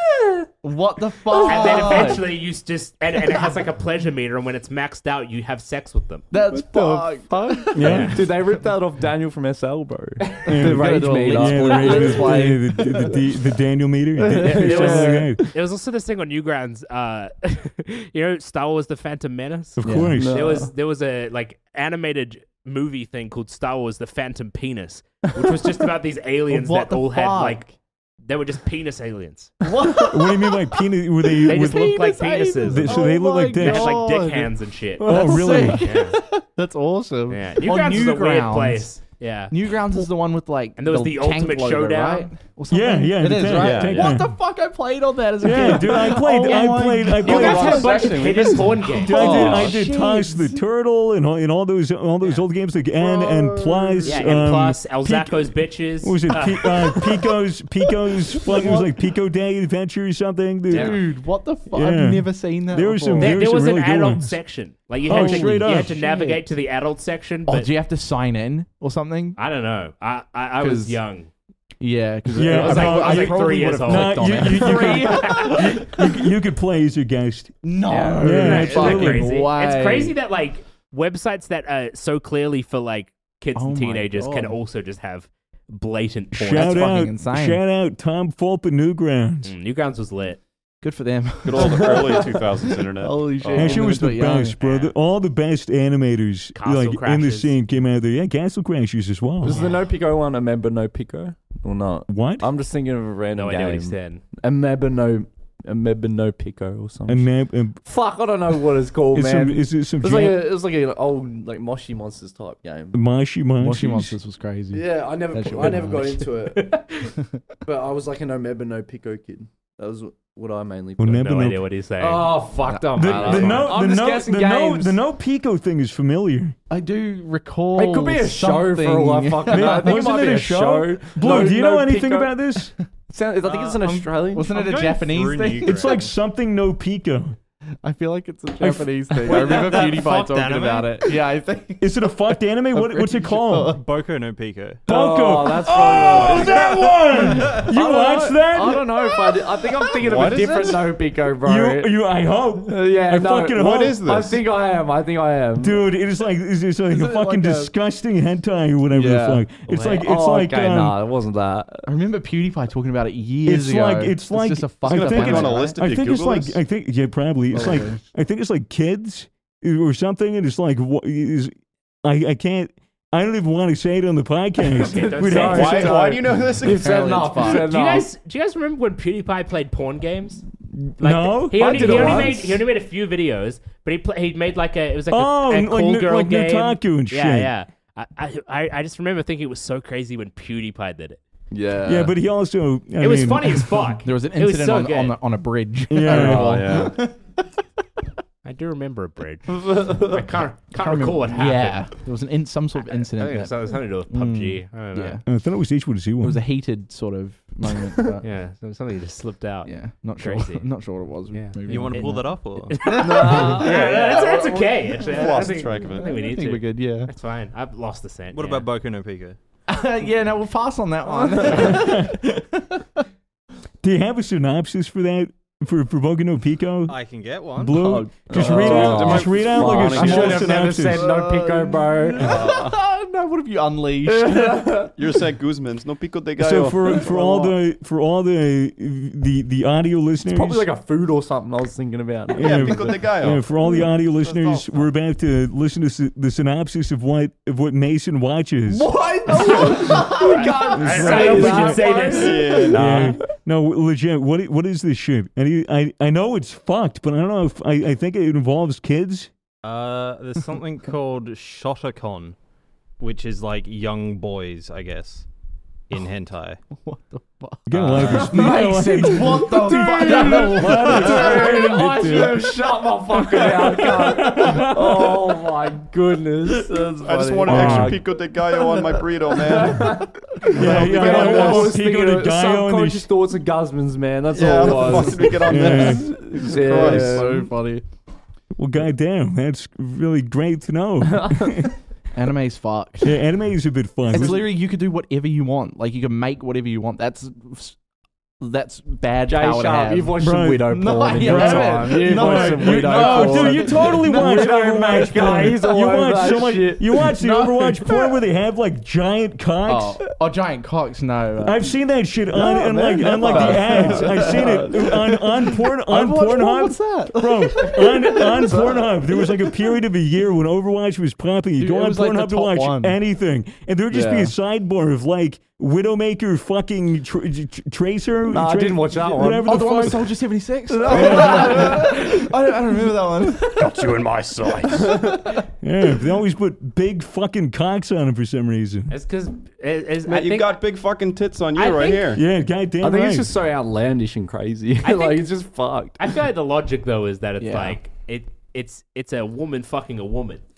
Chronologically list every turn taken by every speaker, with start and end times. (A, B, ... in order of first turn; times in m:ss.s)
0:00.6-0:02.3 A
0:01.3-0:02.2 B
0:01.4-0:06.2 C
0:06.3-0:08.0 A
0:06.4-0:12.3 B
0:07.7-0:08.2 D
0:07.8-0:08.2 C
0:10.4-0:15.4 D
0:10.5-0:13.2 A
0:11.8-0:12.2 C
0:14.3-0:15.3 A
0:14.4-0:15.3 B
0:14.4-0:27.7 C
0:19.8-0:20.4 D
0:19.8-0:20.2 A
0:20.2-0:20.7 B
0:26.5-0:27.7 A
0:28.2-0:29.5 C
0:29.7-0:30.6 A
0:30.1-0:32.0 D
0:31.4-0:38.9 A
0:31.4-0:36.2 C
0:32.6-0:34.0 D
0:35.0-0:35.8 D
0:37.3-0:39.5 C
0:39.5-0:50.5 A
0:40.8-0:42.3 C
0:42.7-0:44.3 D
0:43.4-0:44.2 E
0:45.4-0:47.9 D
0:47.2-0:49.4 C
0:47.3-0:48.5 E
0:47.7-0:48.6 B
0:49.0-1:01.0 D
0:49.2-0:49.7 B
0:49.2-0:49.8 E
0:53.0-0:54.2 A
0:54.0-0:57.0 C
0:58.4-0:58.9 A
1:00.7-1:03.4 A
1:00.7-1:01.0 C
1:01.7-1:04.4 D
1:03.2-1:07.7 C
1:05.0-1:05.9 D
1:05.1-1:06.4 A
1:07.5-1:09.4 A
1:09.4-1:11.3 C
1:10.6-1:11.0 A
1:11.8-1:16.1 A
1:12.3-1:19.3 D
1:12.4-1:15.8 C
1:17.6-1:20.2 A
1:17.9-1:27.0 C
1:23.6-1:24.6 A
1:26.3-1:29.5 D
1:26.5-1:27.6 A
1:29.4-1:30.4 C
1:30.8-1:34.6 A
1:31.4-1:33.9 E
1:31.6-1:32.1 B
1:33.5-1:39.6 D
1:34.6-1:34.9 C
1:36.5-1:37.5 C
1:39.4-1:47.3 B
1:39.5-1:39.8 C
1:42.1-1:42.5 D
1:43.3-1:44.2 C
1:47.1-1:47.8 D
1:47.8-1:53.0 B
1:49.1-1:50.4 D
1:52.9-1:54.2 D
1:53.6-1:56.4 A
1:54.7-1:56.7 B
1:56.5-1:57.1 C
1:57.6-2:01.3 B
2:01.0-2:01.6 D
2:01.0-2:02.5 C
2:02.0-2:05.0 B
2:02.6-2:03.7 A
2:02.9-2:06.5 D
2:03.1-2:03.7 C
2:06.7-2:10.3 A
2:07.7-2:12.4 B
2:09.5-2:12.7 D
2:13.1-2:14.6 B
2:13.4-2:13.8 F
2:13.5-2:16.0 A
2:14.5-2:16.1 F
2:15.6-2:17.4 D
2:17.8-2:21.9 A
2:18.6-2:19.6 D
2:19.2-2:21.1 F
2:21.8-2:23.8 D
2:22.7-2:23.8 A
2:23.7-2:24.9 F
2:24.9-2:28.9 D
2:24.9-2:31.9 B
2:26.2-2:26.6 A
2:26.5-2:26.8 F
2:30.0-2:30.9 E
2:31.4-2:34.1 D
2:32.7-2:35.8 B
2:33.6-2:34.4 E
2:35.6-2:41.0 D
2:36.9-2:37.7 A
2:38.9-2:39.4 A
2:39.7-2:41.9 B
2:41.8-2:45.8 A
2:43.4-2:51.5 D
2:44.8-2:46.6 E
2:47.5-2:48.0 A
2:52.0-2:56.0 D
2:54.8-2:55.9 C
2:54.8-2:58.1 B
2:55.4-2:57.2 E
2:56.6-2:57.7 A
2:57.5-3:00.4 C
3:01.0-3:02.3 D
3:01.0-3:11.2 C
3:01.5-3:02.6 B
3:05.1-3:07.5 D
3:11.5-3:12.1 B
3:11.8-3:13.8 D
3:13.0-3:15.2 C
3:14.0-3:17.3 A
3:15.9-3:16.7 D
3:16.0-3:17.0 E
3:18.4-3:21.9 C
3:19.6-3:20.2 B
3:20.8-3:25.2 A
3:22.8-3:25.2 C
3:25.2-3:26.4 D
3:26.2-3:28.2 A
3:28.2-3:30.6 C
3:29.6-3:34.2 A
3:31.3-3:38.7 C
3:31.6-3:32.8 F
3:32.9-3:34.1 B
3:33.6-3:36.2 E
3:36.0-3:37.1 A
3:38.3-3:39.4 F
3:39.7-3:42.8 A
3:41.1-3:41.8 B
3:41.6-3:42.1 D
3:43.8-3:47.0 D
3:46.9-3:47.9 F
3:47.5-3:51.1 D
3:47.8-3:52.4 B
3:48.3-3:48.9 A
3:48.4-3:50.9 E
3:49.9-3:54.9 A
3:52.2-3:52.8 E
3:54.0-3:54.9 B
3:55.0-3:57.0 E
3:56.4-4:00.7 D
3:56.9-3:57.5 B
4:00.2-4:02.9 B
4:02.3-4:08.9 D
4:02.4-4:04.9 E
4:08.7-4:12.8 A
4:09.2-4:12.8 B
4:09.7-4:12.6 C
4:10.8-4:11.8 D
4:12.1-4:13.2 E
4:12.7-4:19.3 D
4:19.6-4:22.4 F
4:23.0-4:25.3 F
4:25.9-4:26.6 F
4:26.7-4:32.3 A
4:27.7-4:32.5 D
4:27.7-4:28.3 F
4:29.6-4:38.1 B
4:33.6-4:35.2 D
4:37.0-4:41.8 E
4:37.4-4:38.0 D
4:39.5-4:47.5 B
4:40.5-4:43.1 D
4:44.3-4:47.4 E
4:44.6-4:45.2 A
4:45.4-4:46.1 D
4:46.4-4:47.8 A
4:48.6-4:51.7 D
4:51.1-4:51.5 B
4:52.1-4:53.2 A
4:53.0-4:54.5 D
4:54.1-4:57.8 A
4:58.4-5:05.5 A
4:59.3-5:07.0 B
5:00.2-5:10.0 D
5:07.0-5:08.2 A
5:09.7-5:11.8 A
5:11.4-5:30.1 D
5:12.3-5:19.5 A
5:12.4-5:14.8 B
5:21.6-5:23.0 A
5:23.9-5:24.3 A
5:28.3-5:29.9 B
5:29.4-5:34.0 A
5:30.7-5:32.1 B
5:30.9-5:31.8 D
5:33.6-5:34.9 E
5:34.7-5:35.2 B
5:34.8-5:35.4 A
5:35.6-5:38.9 D
5:38.9-5:40.6 C
5:40.0-5:42.2 E
5:41.5-5:42.2 C
5:42.1-5:43.3 D
5:42.8-5:46.0 B
5:44.8-5:45.3 C
5:46.0-5:50.4 C
5:47.4-5:47.8 A